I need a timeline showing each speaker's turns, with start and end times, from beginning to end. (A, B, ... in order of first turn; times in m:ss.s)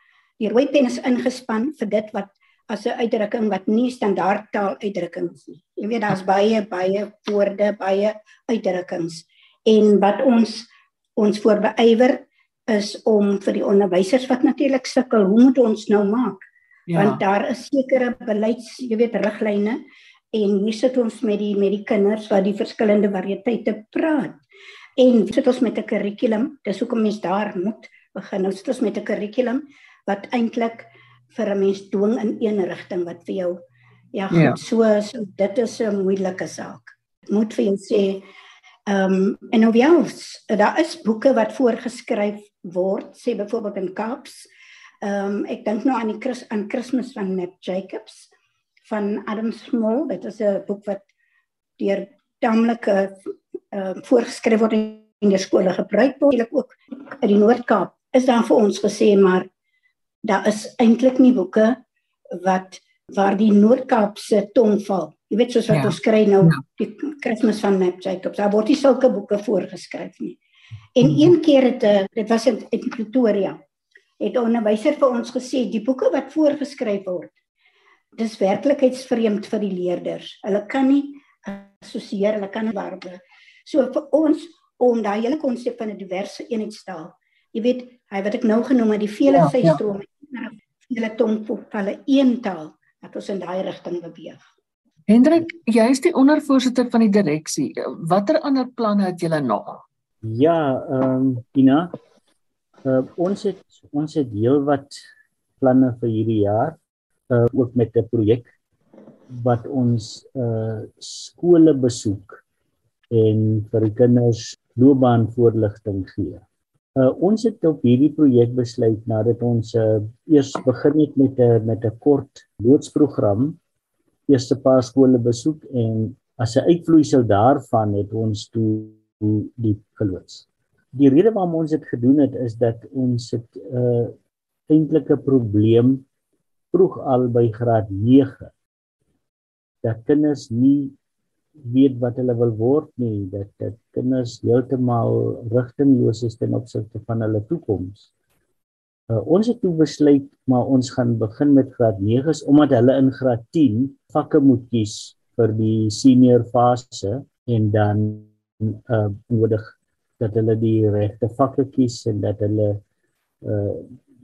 0:00.4-0:16.4 A
0:16.9-0:17.2 B
0:17.0-0:19.8 A
0:20.3-0:24.4 A
0:25.0-0:33.6 A
0:34.1-0:38.2 A
0:34.3-0:34.6 B
0:38.9-0:44.5 A
0:45.0-0:48.3 A
0:48.9-0:51.1 A
0:51.8-0:53.2 A
0:53.7-0:59.5 A
1:00.2-1:01.8 A
1:02.4-1:10.4 A
1:05.7-1:06.6 B
1:11.0-1:13.6 A
1:14.2-1:17.3 A
1:18.2-1:34.4 A
1:29.3-1:29.8 B
1:35.1-1:39.8 B
1:40.2-1:42.0 C
1:42.8-1:45.0 C
1:45.6-1:46.8 C
1:47.3-1:48.5 C
1:49.3-1:52.4 C
1:53.1-1:56.4 C
1:57.0-2:03.6 C
2:04.3-2:14.2 C
2:14.7-2:16.0 C
2:16.7-2:18.5 C
2:19.8-2:21.0 C
2:21.7-2:28.1 C
2:29.1-2:42.8 C
2:43.4-2:43.9 C